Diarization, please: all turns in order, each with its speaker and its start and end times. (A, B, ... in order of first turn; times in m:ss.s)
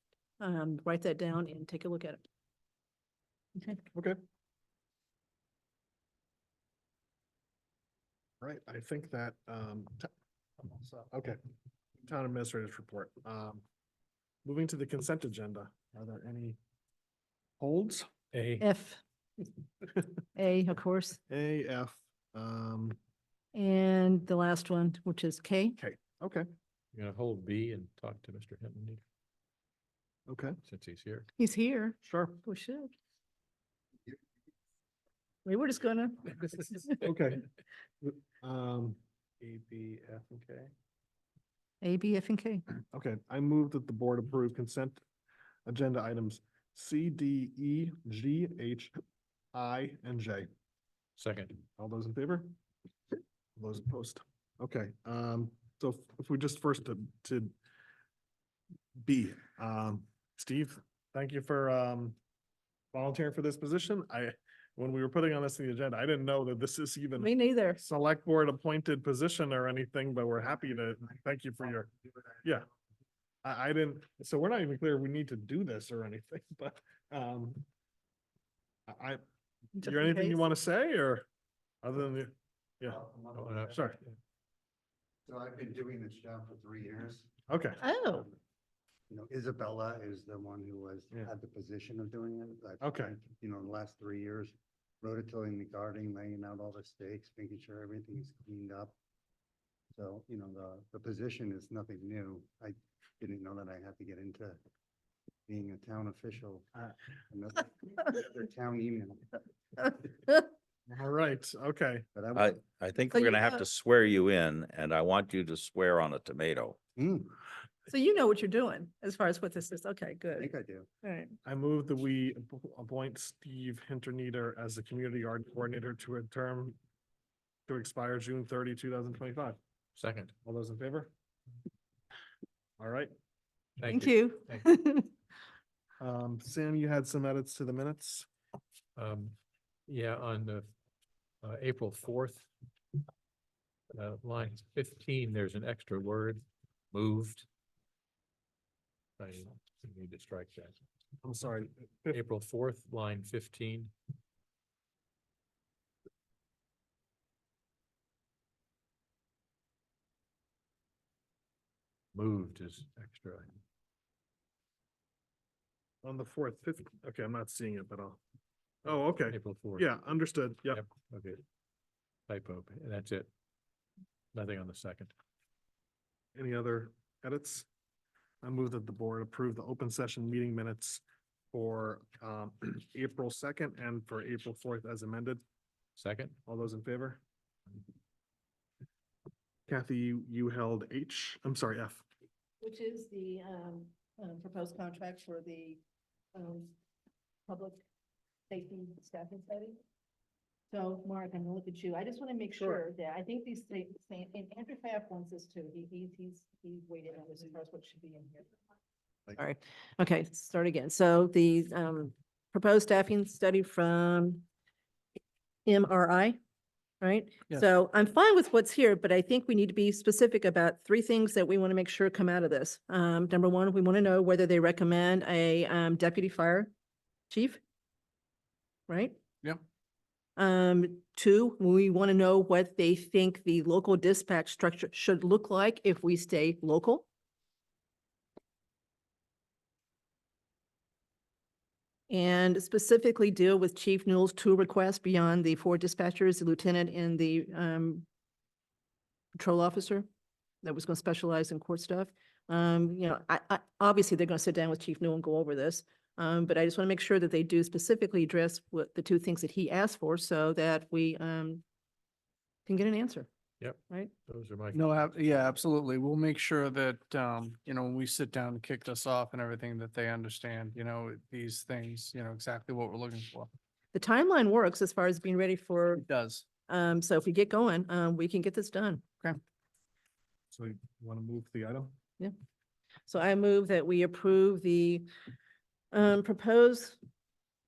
0:00.4-0:02.2 A
0:08.4-0:11.4 B
0:12.0-0:13.6 B
0:14.4-0:16.6 B
0:17.6-0:18.1 B
0:18.3-0:18.6 C
0:18.6-0:19.0 A
0:20.4-0:21.2 A
0:21.3-0:23.0 B
0:23.5-0:25.8 A
0:25.8-0:26.5 B
0:26.9-0:29.0 C
0:30.3-0:30.6 B
0:30.6-0:31.3 C
0:31.4-0:32.9 A
0:32.0-0:32.4 B
0:35.4-0:37.0 A
0:37.0-0:37.4 B
0:38.0-0:40.7 B
0:41.8-0:42.6 A
0:42.9-0:45.0 B
0:45.6-0:48.9 B
0:49.5-0:50.5 B
0:51.2-0:51.6 C
0:51.8-0:52.5 B
0:53.6-0:57.5 B
0:59.0-1:02.2 B
1:02.9-1:12.7 B
1:07.2-1:07.8 A
1:13.4-1:17.6 B
1:18.9-1:19.2 B
1:19.8-1:20.4 A
1:19.8-1:21.2 B
1:21.8-1:23.0 B
1:22.9-1:23.8 D
1:23.3-1:23.8 C
1:23.7-1:24.0 B
1:25.2-1:27.3 D
1:27.5-1:27.8 B
1:27.8-1:28.3 A
1:29.1-1:39.0 D
1:32.8-1:33.2 B
1:39.9-1:44.6 D
1:45.5-1:46.7 D
1:47.3-1:50.1 D
1:50.9-1:52.1 B
1:52.1-1:52.6 D
1:52.3-1:56.8 E
1:53.1-1:53.6 A
1:57.0-1:57.4 D
1:57.9-2:00.5 A
2:00.4-2:00.9 D
2:01.0-2:01.3 A
2:01.4-2:06.8 B
2:07.7-2:09.6 B
2:10.0-2:10.3 C
2:10.4-2:11.1 B
2:12.8-2:13.1 B
2:13.8-2:14.6 C
2:13.9-2:15.1 A
2:16.0-2:18.3 B
2:19.0-2:19.3 C
2:19.9-2:20.7 C
2:21.4-2:22.5 C
2:23.9-2:27.5 C
2:29.2-2:30.7 C
2:31.2-2:32.2 B
2:32.1-2:33.9 C
2:42.1-2:43.5 C
2:46.0-2:48.2 B
2:48.8-2:50.8 B
2:48.9-2:49.9 C
2:50.7-2:51.4 C
2:52.3-2:53.3 C
2:54.3-2:55.1 C
2:56.3-2:57.6 B
2:58.4-3:05.4 B
3:06.0-3:06.4 C
3:06.4-3:07.2 B
3:09.7-3:12.0 B
3:12.6-3:15.8 A
3:16.3-3:16.7 A
3:17.5-3:17.8 A
3:18.5-3:19.8 A
3:20.7-3:28.5 A
3:29.3-3:34.4 A
3:35.6-3:36.4 A
3:37.0-3:46.7 A
3:47.3-3:47.6 A
3:48.9-3:49.2 A
3:50.4-3:57.0 A
4:02.1-4:08.0 A
4:09.4-4:10.0 A
4:10.6-4:21.6 A
4:22.6-4:23.3 A
4:23.6-4:25.6 C
4:24.7-4:33.5 F
4:33.9-4:36.0 A
4:36.0-4:36.4 F
4:36.7-4:39.0 A
4:40.5-4:41.9 B
4:43.1-4:45.1 A
4:45.9-4:47.0 A